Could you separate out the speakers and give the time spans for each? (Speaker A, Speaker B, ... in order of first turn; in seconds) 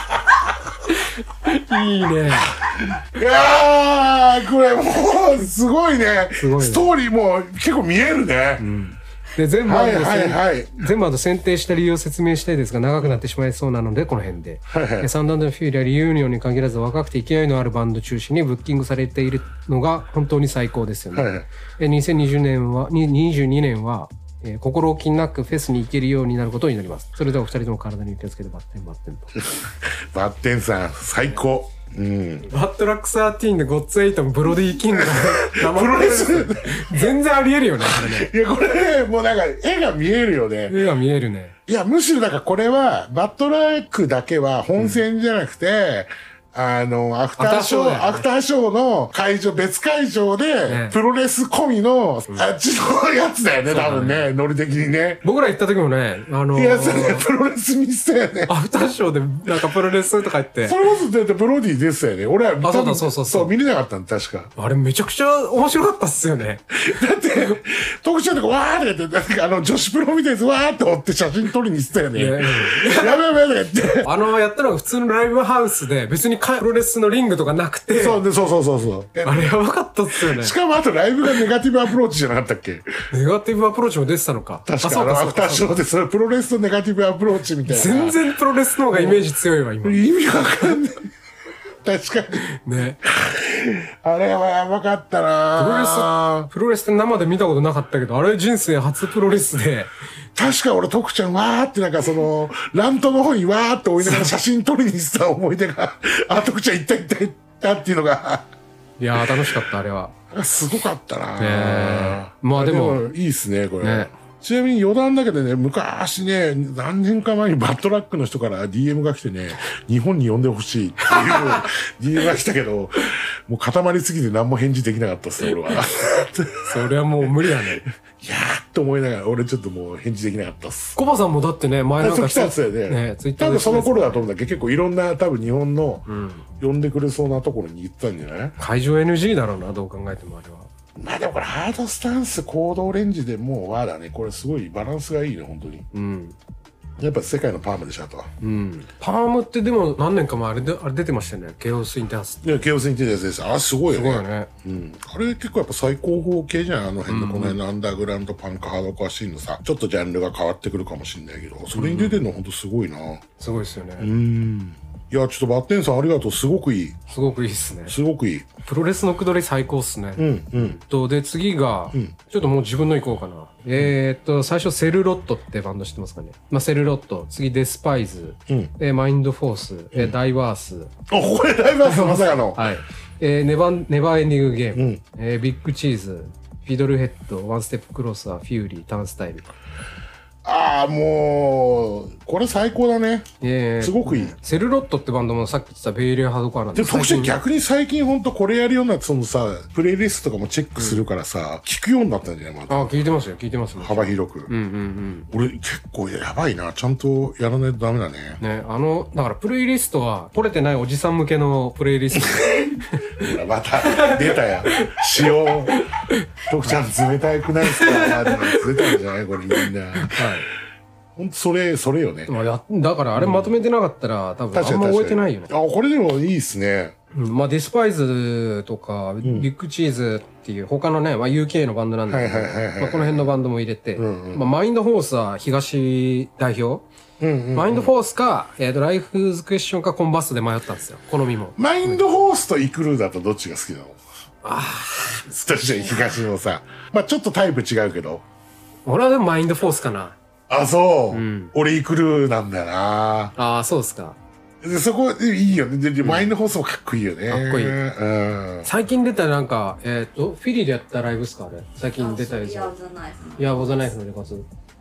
Speaker A: 0.9-2.5, 6.4-6.9, 8.6-29.4, 32.5-38.3, 40.7-41.5, 44.8-45.0, 47.4-48.2, 50.6-51.0, 53.7-54.3, 55.2-57.2, 58.5-60.8, 62.6-63.5, 64.5-66.8, 72.1-73.2, 73.9-78.2, 79.2-80.5, 83.1-85.7, 87.7-90.0, 92.5-93.0, 95.5-99.9, 104.0-104.3, 109.0-110.1, 111.4-113.0, 113.8-114.1, 121.1-121.7, 125.4-125.8, 126.7-127.8, 130.9-134.3, 136.1-136.4, 138.6-140.7, 145.9-146.3, 148.4-152.4, 153.9-154.5, 157.1-157.6, 161.7-162.2, 163.4-164.1, 167.1-168.0, 168.6-180.9, 181.8-189.5, 193.4-197.4, 200.8-201.0, 202.7-205.3, 208.4-213.2, 213.8-215.0, 215.7-216.3, 217.6-219.0, 220.0-220.5, 222.3-225.5, 227.1-236.8, 237.5-242.0, 244.4-245.2, 248.8-250.2, 251.1-251.5, 253.3-254.2, 256.0-256.3, 257.3-257.8, 258.6-262.7, 263.4-264.5
Speaker B: 2.6-8.7, 9.6-10.8, 14.7-15.1, 21.1-21.5, 29.4-32.5, 34.6-37.1, 37.8-40.8, 41.7-55.2, 56.5-58.5, 60.6-64.5, 66.7-74.1, 78.0-79.5, 80.1-83.0, 84.7-88.2, 88.9-89.2, 89.8-91.1, 91.8-92.5, 93.0-96.5, 100.3-108.5, 109.2-109.5, 110.3-126.8, 127.4-131.0, 132.0-136.1, 136.6-138.6, 141.0-145.8, 147.0-148.3, 152.4-163.2, 164.0-167.0, 167.9-168.5, 170.2-170.8, 181.1-182.7, 184.7-185.0, 190.4-193.3, 193.8-194.3, 196.7-202.9, 203.8-204.5, 205.3-208.4, 212.3-215.9, 216.4-220.3, 221.2-222.3, 223.2-223.5, 224.5-226.9, 229.2-229.5, 232.1-233.3, 234.0-234.4, 237.2-237.9, 241.6-244.0, 245.2-248.2, 250.5-253.3, 254.6-258.7
Speaker C: 262.0-263.9